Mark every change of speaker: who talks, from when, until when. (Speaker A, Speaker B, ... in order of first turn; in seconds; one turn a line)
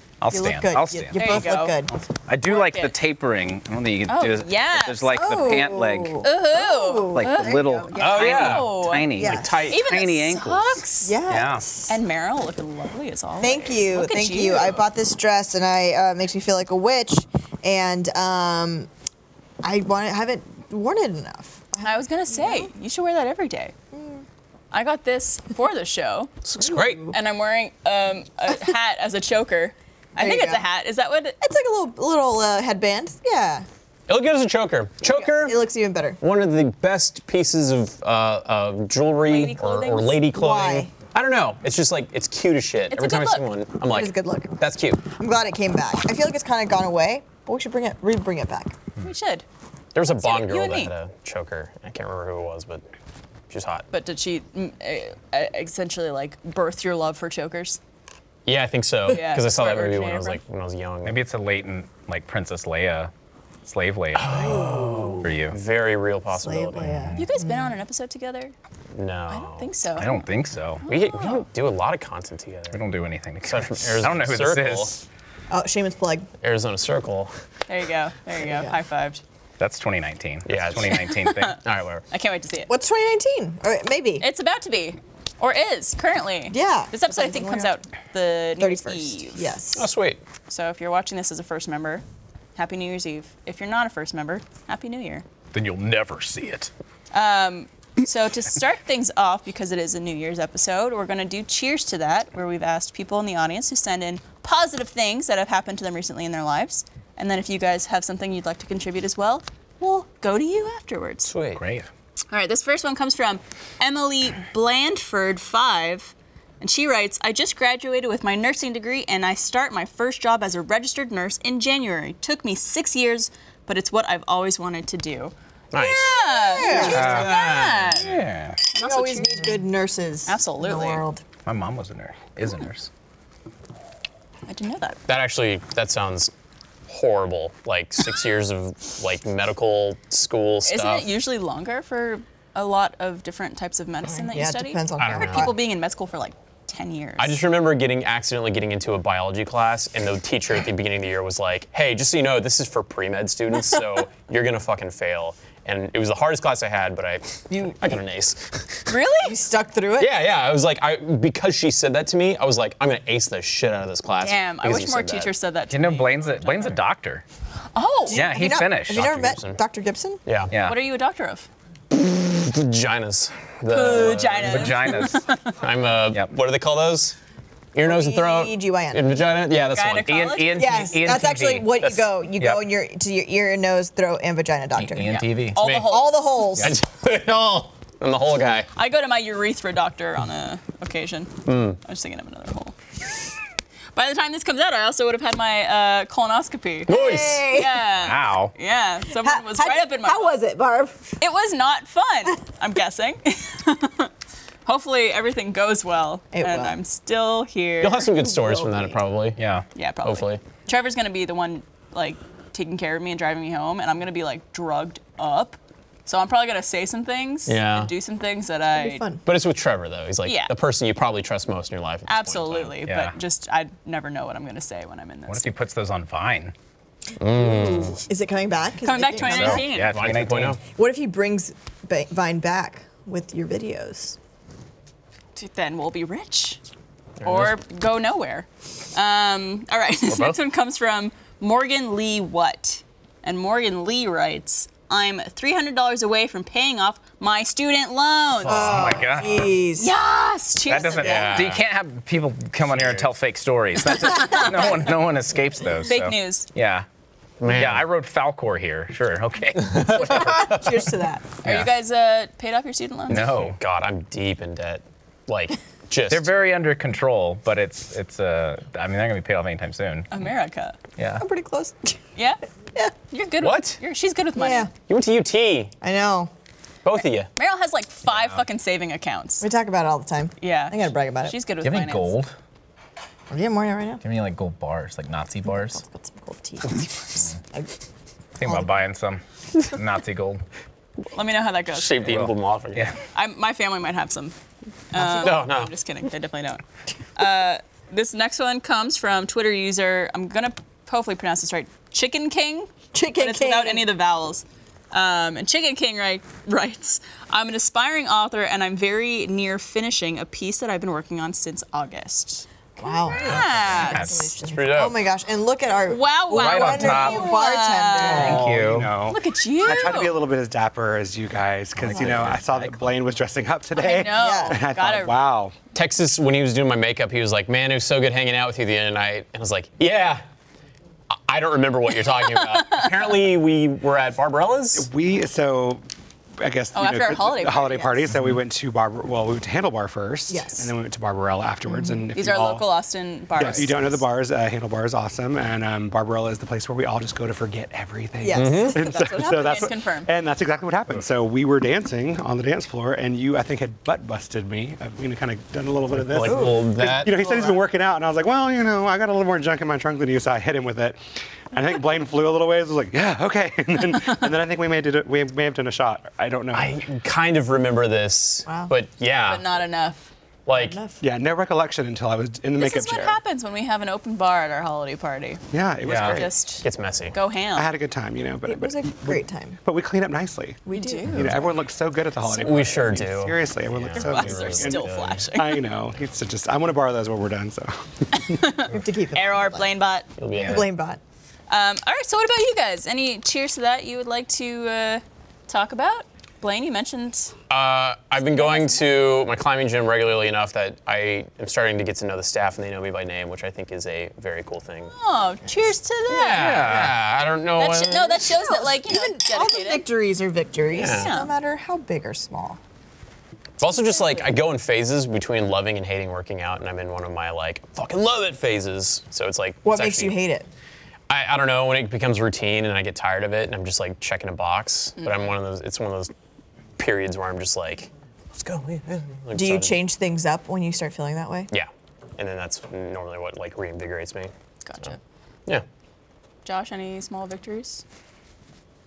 Speaker A: 0.2-1.5
Speaker B: 0.3-1.9
Speaker C: 1.1-1.8
Speaker A: 2.2-6.2
Speaker C: 2.5-3.0
Speaker C: 4.1-5.1
Speaker B: 5.1-8.5
Speaker C: 6.2-9.1
Speaker A: 7.1-11.6
Speaker D: 8.0-9.9
Speaker B: 9.1-9.5
Speaker C: 9.7-11.2
Speaker B: 11.0-12.0
Speaker C: 11.9-14.8
Speaker B: 13.4-18.9
Speaker B: 19.6-22.7
Speaker C: 21.8-23.7
Speaker B: 23.9-24.2
Speaker C: 24.7-26.3
Speaker D: 26.4-27.0
Speaker B: 26.5-27.2
Speaker C: 27.1-31.4
Speaker B: 30.2-30.6
Speaker B: 31.4-33.7
Speaker D: 34.1-35.6
Speaker B: 35.0-36.2
Speaker D: 36.2-45.0
Speaker C: 39.2-40.2
Speaker B: 40.3-40.9
Speaker C: 42.9-43.4
Speaker B: 43.9-44.5
Speaker B: 45.1-48.7
Speaker C: 49.0-49.4
Speaker D: 49.9-52.8
Speaker C: 50.0-50.9
Speaker D: 53.5-53.9
Speaker C: 53.9-57.8
Speaker D: 58.5-61.2
Speaker C: 59.1-60.4
Speaker A: 61.0-63.1
Speaker A: 63.6-65.6
Speaker D: 64.1-67.0
Speaker B: 64.3-65.3
Speaker B: 66.3-67.7
Speaker A: 66.8-67.2
Speaker C: 67.2-68.5
Speaker D: 68.9-69.7
Speaker C: 69.3-70.2
Speaker A: 70.0-70.8
Speaker C: 70.8-71.5
Speaker D: 70.9-72.8
Speaker A: 72.7-75.0
Speaker D: 73.4-75.0
Speaker B: 75.5-76.3
Speaker D: 76.4-77.3
Speaker C: 77.7-79.2
Speaker B: 78.4-78.7
Speaker A: 79.6-81.6
Speaker D: 80.5-81.0
Speaker C: 80.8-81.6
Speaker D: 81.6-82.0
Speaker C: 82.1-82.7
Speaker B: 82.7-84.3
Speaker C: 84.2-89.6
Speaker B: 86.5-87.7
Speaker B: 88.6-89.9
Speaker D: 89.7-90.2
Speaker C: 90.5-92.0
Speaker C: 92.5-95.2
Speaker A: 95.5-96.7
Speaker C: 97.1-111.3
Speaker D: 111.3-111.6
Speaker A: 111.5-111.9
Speaker C: 112.3-129.6
Speaker D: 125.7-128.0
Speaker B: 126.2-127.3
Speaker A: 126.8-127.4
Speaker A: 127.9-128.6
Speaker B: 128.7-131.2
Speaker C: 130.2-131.0
Speaker A: 131.4-132.9
Speaker C: 134.5-135.0
Speaker D: 135.1-136.3
Speaker D: 136.9-141.1
Speaker C: 140.7-147.4
Speaker B: 144.1-145.6
Speaker D: 145.0-145.6
Speaker D: 147.2-158.8
Speaker B: 157.5-157.9
Speaker C: 158.9-159.3
Speaker B: 159.2-160.1
Speaker D: 160.0-165.3
Speaker C: 164.2-166.8
Speaker A: 165.7-167.2
Speaker C: 167.7-168.3
Speaker B: 168.1-170.2
Speaker A: 168.1-169.0
Speaker D: 168.9-169.6
Speaker D: 170.2-170.5
Speaker A: 170.5-170.8
Speaker C: 170.6-171.5
Speaker D: 171.9-174.9
Speaker C: 173.7-175.5
Speaker A: 174.3-175.2
Speaker D: 175.6-177.2
Speaker D: 177.7-180.4
Speaker B: 177.8-179.1
Speaker C: 179.7-180.9
Speaker A: 180.1-181.8
Speaker B: 180.5-186.7
Speaker D: 181.8-182.1
Speaker A: 182.4-182.6
Speaker A: 184.8-185.6
Speaker C: 185.0-186.4
Speaker D: 185.6-186.0
Speaker D: 186.6-188.7
Speaker C: 188.8-192.7
Speaker D: 191.4-191.8
Speaker C: 193.9-200.3
Speaker D: 196.9-197.4
Speaker B: 196.9-197.8
Speaker A: 197.9-198.5
Speaker B: 199.1-201.2
Speaker C: 201.2-204.1
Speaker C: 204.7-208.1
Speaker B: 206.3-206.8
Speaker D: 207.8-209.4
Speaker B: 208.2-208.9
Speaker A: 209.4-209.6
Speaker C: 209.7-219.0
Speaker D: 210.0-210.4
Speaker D: 217.5-217.9
Speaker B: 218.8-219.2
Speaker D: 219.2-222.8
Speaker C: 220.2-220.5
Speaker C: 222.1-225.5
Speaker A: 222.8-223.2
Speaker A: 225.3-226.5
Speaker D: 227.2-228.0
Speaker B: 227.3-229.6
Speaker C: 228.8-230.0
Speaker A: 229.2-230.6
Speaker D: 229.6-230.6
Speaker B: 230.7-234.2
Speaker C: 235.3-236.6
Speaker D: 237.2-237.6
Speaker C: 237.2-248.8
Speaker D: 248.4-249.3
Speaker B: 248.4-249.9
Speaker A: 248.7-249.5
Speaker C: 249.7-251.4
Speaker A: 250.7-256.9
Speaker D: 251.0-251.7
Speaker B: 251.0-251.4
Speaker D: 252.7-253.1
Speaker C: 253.8-254.9
Speaker C: 255.9-256.5
Speaker D: 257.4-257.9
Speaker A: 257.5-260.6
Speaker B: 259.8-261.3
Speaker D: 259.8-260.2
Speaker C: 261.4-263.2
Speaker A: 261.4-261.7
Speaker A: 263.1-263.6
Speaker D: 263.1-266.3
Speaker A: 266.1-270.1
Speaker C: 270.1-270.8
Speaker A: 271.0-271.2
Speaker B: 271.2-272.0
Speaker C: 272.1-272.4
Speaker C: 273.1-274.7
Speaker D: 273.4-273.8
Speaker B: 274.4-274.7
Speaker D: 274.9-275.7
Speaker B: 275.8-276.3
Speaker D: 276.8-277.3
Speaker C: 277.3-279.4
Speaker A: 278.1-278.4
Speaker B: 279.4-281.4
Speaker C: 280.4-282.2
Speaker A: 281.6-282.3
Speaker B: 283.3-284.0
Speaker A: 284.0-285.8
Speaker B: 285.4-287.7
Speaker A: 288.4-290.4
Speaker B: 288.4-288.7
Speaker C: 291.1-292.2
Speaker D: 291.7-293.0
Speaker A: 292.0-292.9
Speaker C: 293.1-294.3
Speaker C: 294.9-296.6
Speaker B: 294.9-295.4
Speaker D: 295.2-295.7
Speaker C: 297.1-314.2
Speaker B: 302.9-303.9
Speaker B: 312.8-318.5
Speaker A: 313.1-314.3
Speaker D: 314.5-314.9
Speaker C: 315.9-318.5
Speaker A: 316.3-317.3
Speaker E: 318.1-325.5
Speaker A: 318.2-318.9
Speaker C: 319.1-320.2
Speaker D: 321.8-322.4
Speaker A: 322.1-322.4
Speaker C: 323.8-325.1
Speaker B: 324.1-324.6
Speaker D: 325.7-330.2
Speaker D: 331.3-334.9
Speaker C: 332.0-333.0
Speaker E: 334.8-335.8
Speaker E: 336.4-342.6
Speaker C: 336.7-338.0
Speaker B: 340.3-340.7
Speaker B: 341.7-342.0
Speaker C: 342.1-344.0
Speaker E: 343.3-361.0
Speaker B: 348.2-349.5
Speaker D: 348.3-348.7
Speaker C: 348.7-350.1
Speaker D: 355.9-357.1
Speaker B: 356.2-356.6
Speaker E: 361.5-366.8
Speaker D: 366.5-369.5
Speaker B: 368.4-368.7
Speaker C: 369.2-370.1
Speaker D: 370.4-370.8
Speaker B: 370.5-371.0
Speaker E: 371.0-373.2
Speaker C: 372.6-375.4
Speaker E: 375.5-376.3
Speaker A: 375.9-376.2
Speaker C: 375.9-377.7
Speaker D: 376.6-377.1
Speaker E: 377.5-388.4
Speaker B: 378.4-379.6
Speaker B: 380.6-381.4
Speaker C: 380.7-381.6
Speaker C: 382.2-382.8
Speaker D: 382.4-385.2
Speaker C: 383.9-385.7
Speaker C: 388.1-390.1
Speaker B: 388.6-389.8
Speaker D: 390.2-390.7
Speaker A: 390.3-390.6
Speaker B: 390.4-391.0
Speaker C: 391.5-397.3
Speaker D: 397.5-404.9
Speaker C: 398.2-398.8
Speaker C: 404.9-407.0
Speaker D: 406.1-408.4
Speaker A: 406.3-406.9
Speaker C: 407.6-409.8
Speaker B: 408.3-412.6
Speaker D: 410.7-411.2
Speaker C: 410.8-411.3
Speaker D: 413.6-420.2
Speaker B: 419.6-420.5
Speaker D: 421.1-426.1
Speaker C: 425.0-425.2
Speaker D: 426.8-429.8
Speaker B: 429.3-431.5
Speaker D: 431.5-434.3
Speaker C: 434.6-435.0
Speaker C: 436.4-437.8